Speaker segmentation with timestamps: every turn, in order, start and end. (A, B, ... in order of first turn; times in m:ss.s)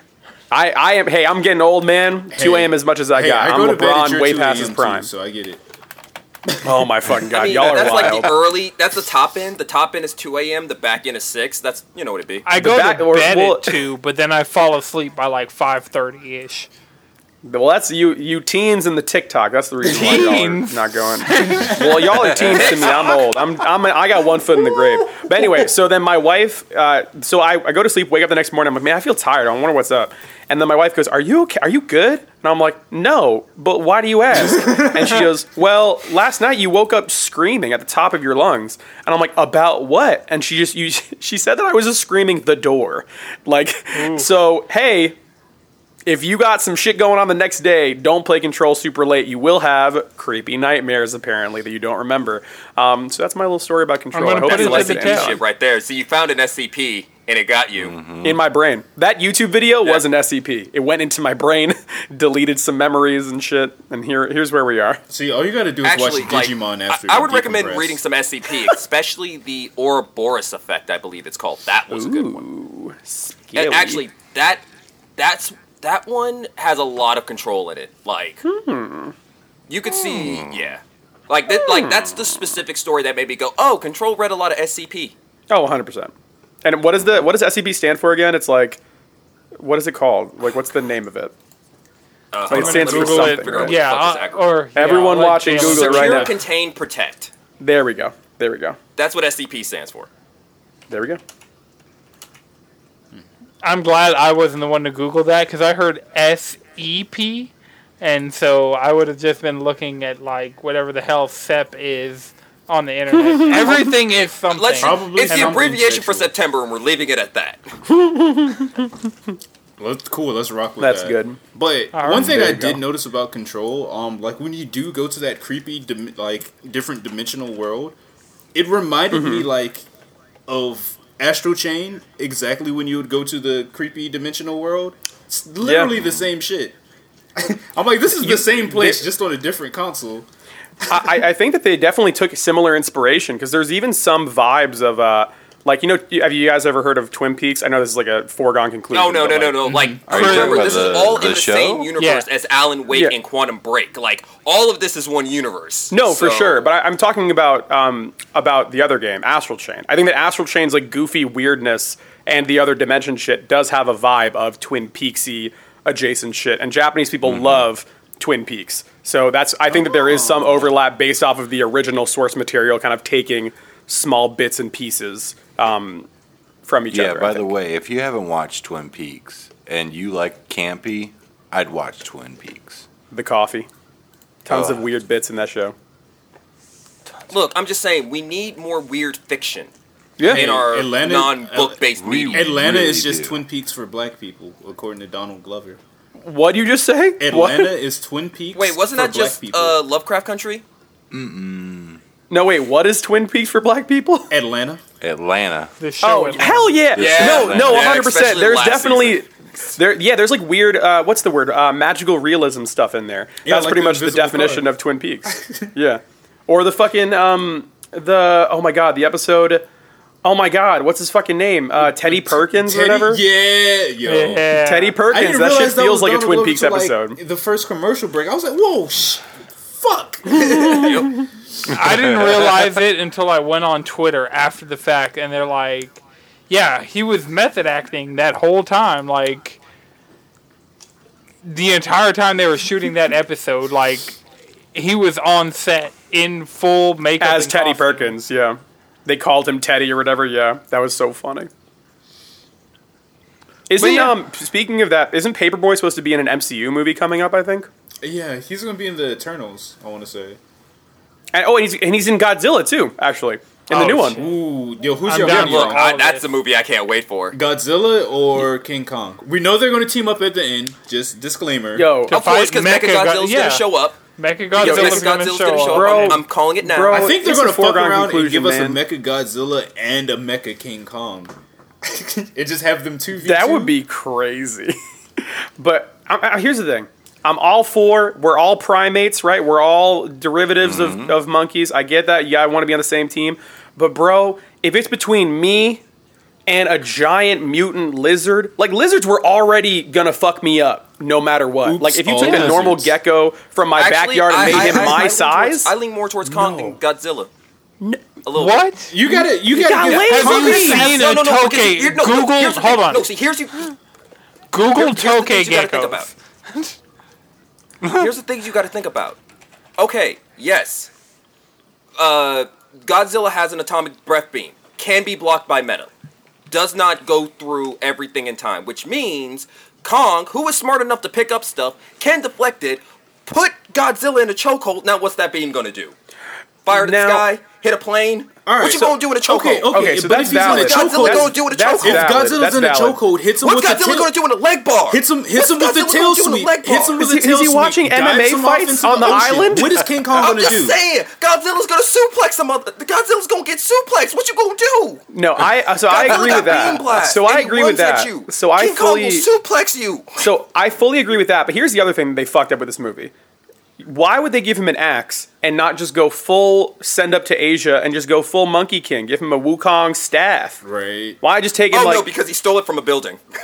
0:00.5-0:05.1 A
0:02.3-0:05.6 B
0:06.5-0:06.8 B
0:06.6-0:08.4 A
0:07.3-0:12.5 C
0:07.8-0:08.1 B
0:12.4-0:16.7 D
0:12.6-0:13.8 A
0:17.4-0:45.2 A
0:19.9-0:21.7 D
0:21.3-0:21.9 B
0:22.4-0:22.7 E
0:22.4-0:23.3 C
0:24.6-0:25.6 B
0:34.3-0:35.3 B
0:43.9-0:44.3 D
0:46.1-0:55.4 A
0:54.1-0:55.4 D
0:54.4-0:58.0 C
0:57.8-0:58.4 E
0:58.2-1:05.0 A
1:05.1-1:08.0 B
1:05.8-1:12.4 C
1:11.9-1:14.0 A
1:13.6-1:14.6 C
1:15.2-1:18.4 C
1:18.4-1:19.2 A
1:19.7-1:25.1 C
1:20.2-1:20.5 E
1:21.6-1:22.1 A
1:25.5-1:26.1 A
1:26.6-1:28.8 A
1:29.6-1:31.3 A
1:32.3-1:34.5 C
1:32.5-1:33.8 A
1:32.5-1:36.3 D
1:34.8-1:36.4 A
1:35.5-1:37.3 C
1:37.6-1:38.8 A
1:39.0-1:40.1 C
1:40.9-1:41.2 A
1:43.6-1:55.6 D
1:53.1-1:54.0 A
1:54.5-1:57.6 C
1:54.8-1:56.3 B
1:57.9-1:58.9 A
1:59.8-2:08.0 B
2:00.8-2:01.4 A
2:01.9-2:02.5 D
2:02.1-2:02.8 A
2:08.5-2:09.9 B
2:09.1-2:09.5 A
2:10.5-2:16.8 B
2:15.6-2:15.9 A
2:16.0-2:16.2 E
2:17.4-2:20.3 B
2:18.2-2:19.0 A
2:20.8-2:21.2 B
2:20.9-2:29.7 A
2:28.9-2:36.7 C
2:29.6-2:31.0 B
2:30.1-2:31.9 E
2:30.2-2:30.6 D
2:32.0-2:32.3 D
2:32.9-2:33.2 A
2:35.9-2:56.1 A
2:47.2-2:47.7 E
2:49.7-2:50.7 B
2:56.7-2:57.5 A
2:56.9-3:02.9 E
3:03.1-3:03.7 A
3:04.4-3:05.8 A
3:04.5-3:04.8 E
3:07.3-3:09.7 C
3:10.2-3:10.6 A
3:10.3-3:15.8 B
3:10.3-3:12.6 C
3:12.0-3:13.4 E
3:16.2-3:17.7 A
3:17.2-3:19.8 B
3:18.5-3:20.6 C
3:21.1-3:22.0 E
3:22.3-3:24.3 A
3:24.3-3:24.8 B
3:25.0-3:25.8 E
3:25.8-3:26.9 D
3:26.0-3:39.6 A
3:27.0-3:28.1 E
3:27.0-3:29.2 C
3:33.4-3:34.7 B
3:35.3-3:35.7 B
3:40.2-3:43.2 A
3:41.8-3:51.3 B
3:44.0-3:45.0 D
3:44.6-3:47.2 A
3:50.3-3:51.2 A
3:51.7-3:59.6 D
3:52.1-3:52.4 E
4:01.4-4:04.2 D
4:04.7-4:08.2 D
4:07.2-4:11.5 A
4:13.7-4:17.7 A
4:13.8-4:14.2 D
4:18.0-4:20.4 B
4:21.3-4:24.3 A
4:23.7-4:25.8 B
4:25.1-4:26.4 D
4:25.2-4:27.4 C
4:27.3-4:31.9 B
4:31.8-4:32.1 A
4:32.1-4:36.2 D
4:32.1-4:34.0 C
4:34.6-4:37.1 C
4:34.6-4:35.0 A
4:35.7-4:38.8 A
4:36.9-4:43.7 B
4:43.2-4:55.8 A
4:50.6-4:51.2 E
4:56.5-5:05.7 A
5:01.6-5:02.9 B
5:03.8-5:07.3 C
5:04.4-5:05.1 B
5:06.3-5:06.7 B
5:08.2-5:08.7 C
5:08.3-5:08.9 D
5:08.9-5:10.9 B
5:09.0-5:10.9 A
5:09.8-5:13.8 C
5:10.1-5:13.1 D
5:14.5-5:16.8 D
5:14.7-5:16.1 C
5:17.8-5:19.2 C
5:19.8-5:20.9 C
5:22.0-5:25.9 C
5:26.5-5:35.9 C
5:36.6-5:39.8 C
5:36.7-5:37.2 A
5:38.4-5:44.1 B
5:39.7-5:43.0 A
5:40.3-5:42.2 C
5:43.4-5:47.0 C
5:44.9-5:50.8 B
5:47.0-5:49.7 A
5:50.1-5:55.0 C
5:55.1-5:59.3 A
5:55.9-6:00.3 C
5:56.1-5:56.6 B
6:00.2-6:03.1 A
6:03.8-6:10.6 A
6:10.6-6:11.2 B
6:11.2-6:12.1 A
6:11.7-6:13.2 C